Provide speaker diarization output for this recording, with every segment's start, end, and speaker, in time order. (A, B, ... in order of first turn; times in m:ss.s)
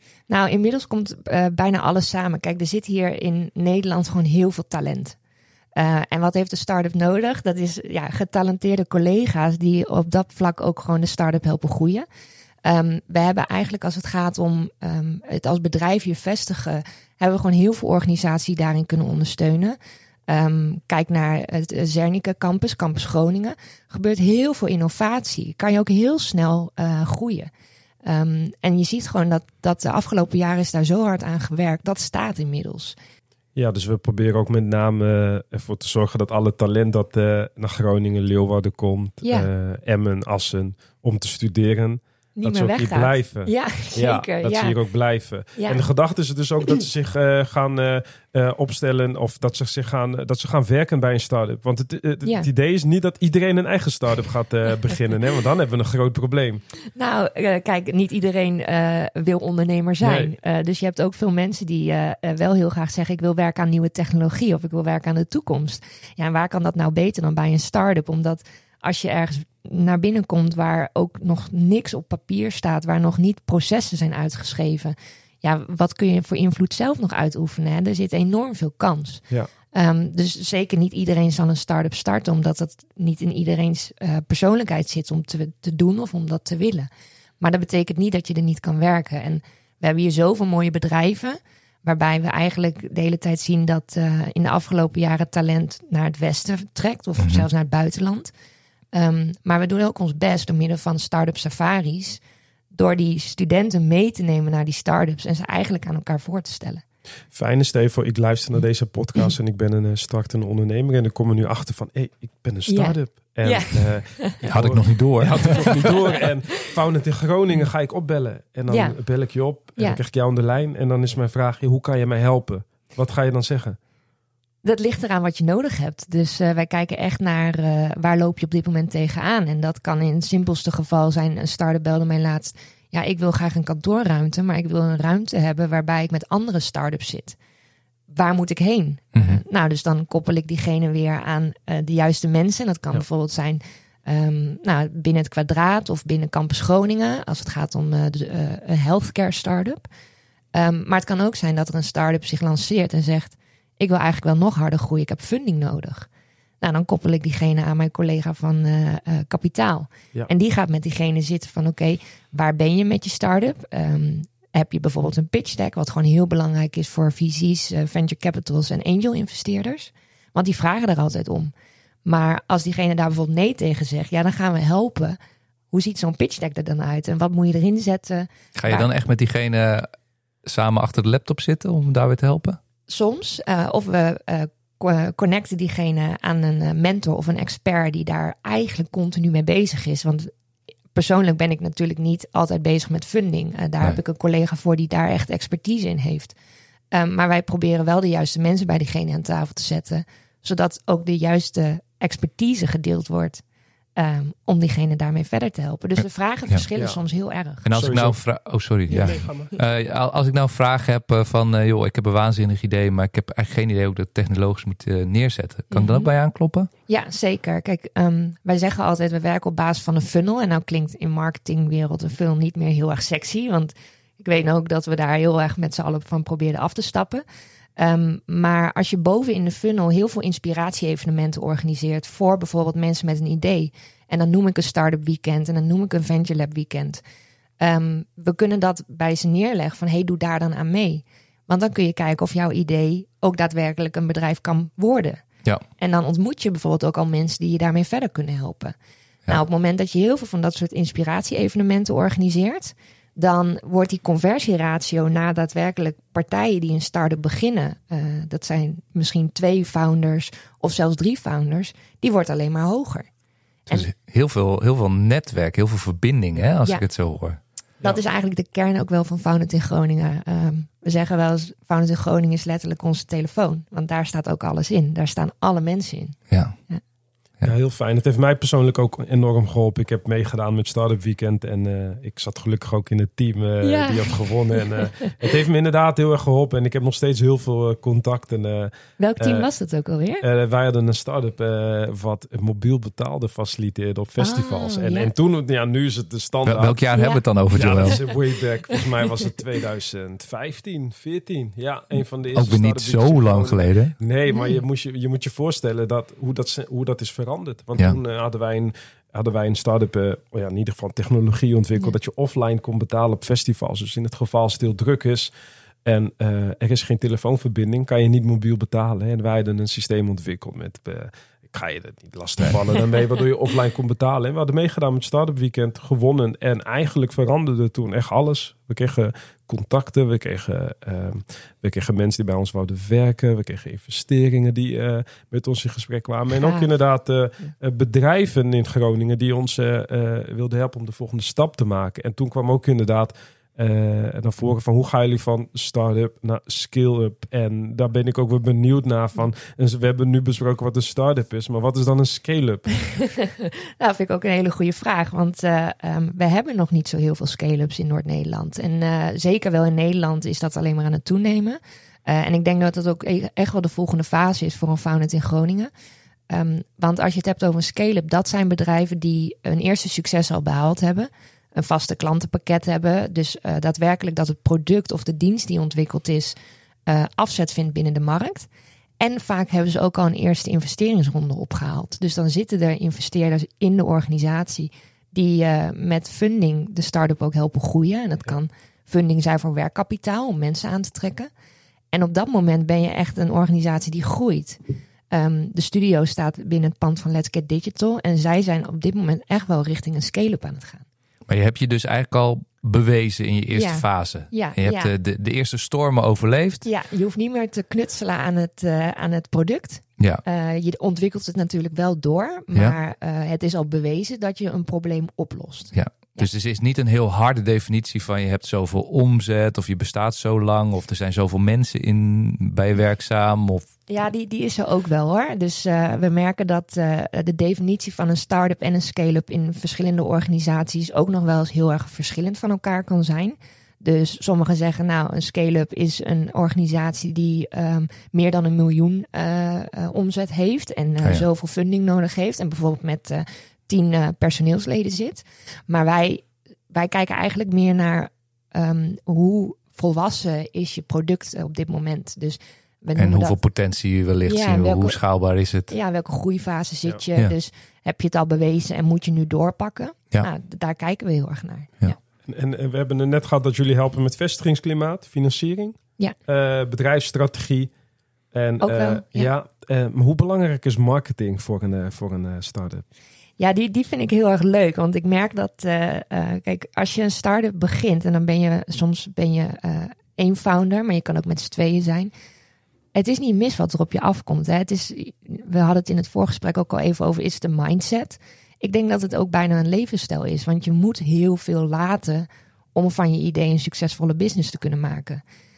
0:00.3-0:05.2 A
0:05.8-0:12.0 A
0:12.6-0:27.5 A
0:28.0-0:33.0 A
0:33.5-0:56.6 B
0:39.2-0:39.5 A
0:42.4-0:44.8 A
0:45.6-0:45.8 A
0:56.9-1:26.9 A
1:00.0-1:00.3 B
1:27.4-1:38.3 A
1:37.2-1:37.4 C
1:38.9-1:42.2 A
1:42.7-1:46.8 A
1:47.3-2:03.8 B
1:52.7-1:54.4 A
1:54.4-1:55.9 C
1:55.4-1:55.9 A
1:58.7-1:59.0 A
2:04.6-2:17.4 A
2:18.1-2:29.9 A
2:19.2-2:19.4 C
2:30.5-2:36.1 A
2:36.6-2:51.5 A
2:52.0-2:55.2 A
2:55.7-2:58.9 A
2:58.6-2:59.9 C
3:00.4-3:02.6 C
3:02.9-3:10.3 A
3:10.9-3:16.3 A
3:16.9-3:23.4 A
3:24.0-3:27.6 A
3:27.6-3:36.7 C
3:27.7-3:28.2 B
3:28.9-3:29.5 B
3:35.7-3:36.1 A
3:36.9-3:47.2 A
3:47.8-3:57.0 A
3:57.6-4:05.2 A
4:05.8-4:08.7 A
4:09.3-4:23.1 A
4:23.7-4:27.4 C
4:27.8-4:36.2 A
4:36.3-4:36.5 C
4:37.4-4:49.5 B
4:43.6-4:45.1 A
4:49.0-4:50.2 A
4:50.2-4:56.8 B
4:54.2-4:55.1 A
4:56.4-4:58.0 C
4:56.9-4:57.2 A
4:57.5-5:15.3 B
4:57.8-4:58.1 A
5:02.3-5:03.9 C
5:04.3-5:04.6 A
5:15.8-5:52.7 B
5:36.4-5:36.7 A
5:53.0-6:05.7 A
6:06.3-6:16.3 A
6:16.9-6:18.5 A
6:19.0-6:31.3 A
6:31.9-6:34.6 A
6:35.1-6:40.8 A
6:41.3-6:46.7 C
6:43.5-6:44.9 A
6:46.6-6:56.3 A
6:55.7-7:03.7 C
7:03.9-7:33.4 A
7:33.0-7:35.7 C
7:34.2-7:35.0 A
7:35.7-7:42.0 A
7:42.2-7:47.7 B
7:48.3-7:52.8 B
7:48.6-7:49.3 A
7:53.4-8:02.1 A
8:02.9-8:15.2 A